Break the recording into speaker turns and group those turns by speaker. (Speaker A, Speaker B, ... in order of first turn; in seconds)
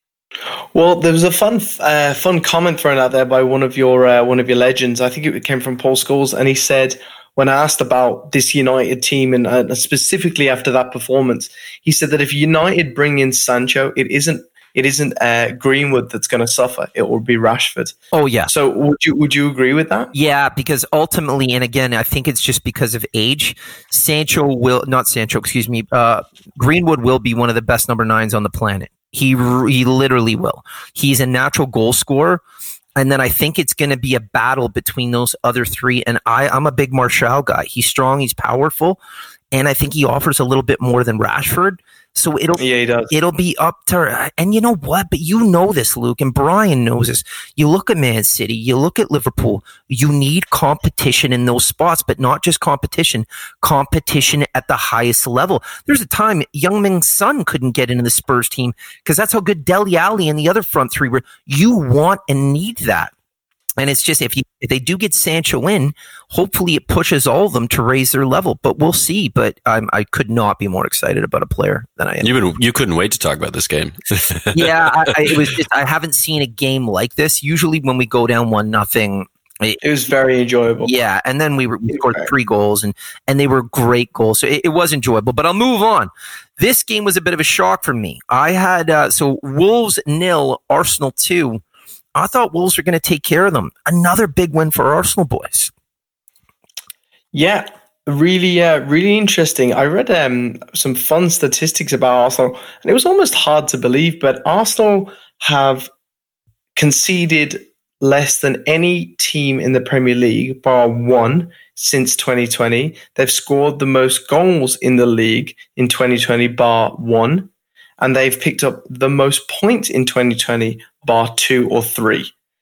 Speaker A: 0.7-20.1, 42.6-43.1, 79.8-80.9, 81.9-82.3, 97.3-105.9, 106.8-122.3
Speaker B: 18.1-18.5, 20.1-32.4, 33.0-39.0, 39.5-63.1, 63.8-72.3, 74.5-79.8, 80.8-91.6, 92.1-95.7
Speaker C: 72.2-75.5